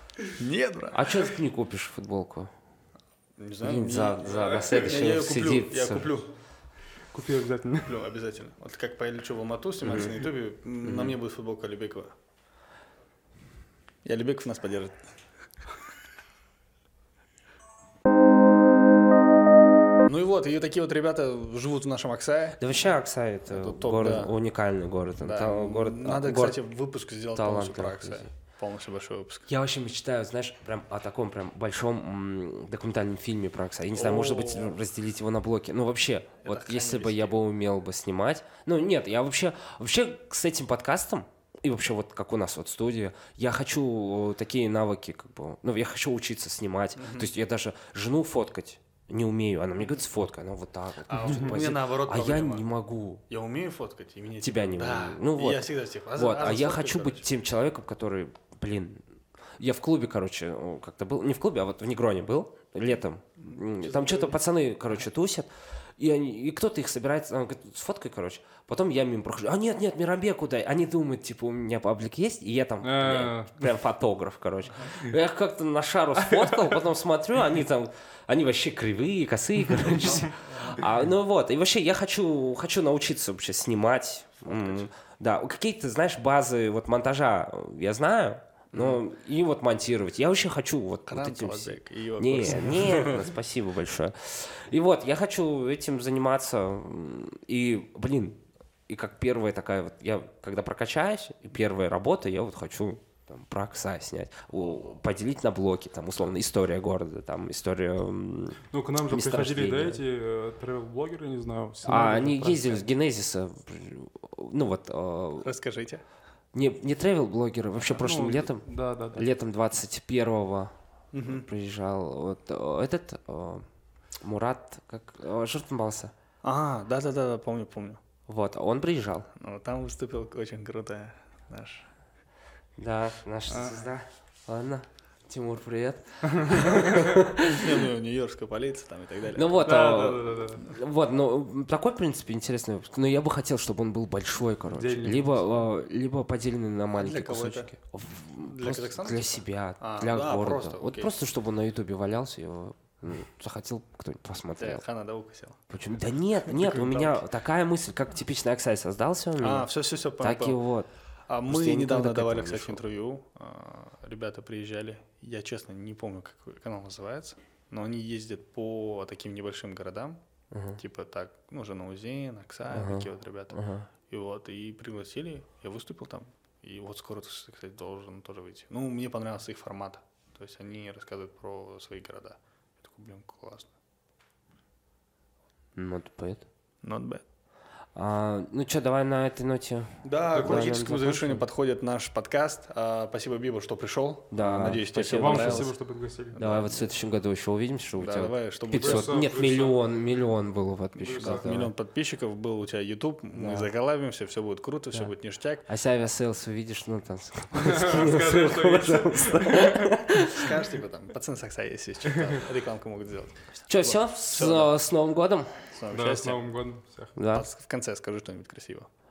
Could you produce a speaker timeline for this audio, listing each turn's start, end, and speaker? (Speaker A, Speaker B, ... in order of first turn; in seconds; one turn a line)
Speaker A: 0.4-1.1
Speaker B: 0.9-2.5
Speaker A: 3.4-6.3
Speaker B: 3.6-6.1
Speaker C: 4.3-4.7
Speaker C: 7.1-8.0
Speaker A: 7.8-12.1
Speaker B: 9.8-10.1
Speaker B: 10.8-11.2
Speaker A: 14.0-15.1
Speaker A: 20.1-22.6
Speaker B: 22.6-26.6
Speaker A: 23.5-24.3
Speaker A: 25.2-29.5
Speaker B: 27.4-28.3
Speaker B: 29.5-53.2
Speaker A: 33.9-34.8
Speaker A: 36.4-37.4
Speaker A: 47.0-47.4
Speaker A: 51.1-52.6
Speaker A: 53.3-57.3
Speaker B: 54.4-59.0
Speaker B: 59.6-110.0
Speaker A: 63.5-64.4
Speaker C: 72.8-73.7
Speaker C: 76.3-76.8
Speaker A: 84.4-84.9
Speaker A: 88.7-89.0
Speaker A: 91.1-93.3
Speaker C: 108.7-112.8
Speaker B: 111.8-115.5
Speaker A: 115.4-116.0
Speaker B: 116.5-123.7
Speaker C: 117.9-119.3
Speaker A: 121.1-121.5
Speaker B: 124.2-126.1
Speaker A: 126.4-128.0
Speaker B: 128.3-129.3
Speaker A: 129.3-131.9
Speaker B: 132.8-137.8
Speaker C: 133.5-133.8
Speaker C: 136.3-137.1
Speaker A: 137.5-139.6
Speaker B: 139.3-154.8
Speaker C: 139.6-140.7
Speaker C: 144.7-145.7
Speaker A: 146.9-147.7
Speaker A: 148.4-151.1
Speaker A: 154.6-155.6
Speaker B: 155.7-159.7
Speaker A: 156.4-157.2
Speaker A: 159.4-160.6
Speaker B: 160.2-160.9
Speaker A: 161.3-170.2
Speaker B: 161.4-162.8
Speaker B: 170.5-170.8
Speaker A: 170.8-183.7
Speaker B: 172.7-173.9
Speaker B: 185.8-186.4
Speaker A: 186.8-187.2
Speaker B: 187.9-191.4
Speaker A: 190.0-195.7
Speaker C: 190.3-190.8
Speaker B: 194.3-195.7
Speaker C: 195.0-196.4
Speaker A: 196.3-196.9
Speaker B: 196.4-201.7
Speaker A: 197.9-199.2
Speaker C: 198.7-199.8
Speaker C: 200.9-201.6
Speaker A: 201.2-205.7
Speaker B: 203.3-203.7
Speaker B: 205.7-210.6
Speaker C: 207.6-209.9
Speaker A: 210.3-214.7
Speaker B: 213.7-215.6
Speaker A: 215.7-216.4
Speaker C: 215.9-217.2
Speaker B: 217.2-217.5
Speaker A: 217.3-218.9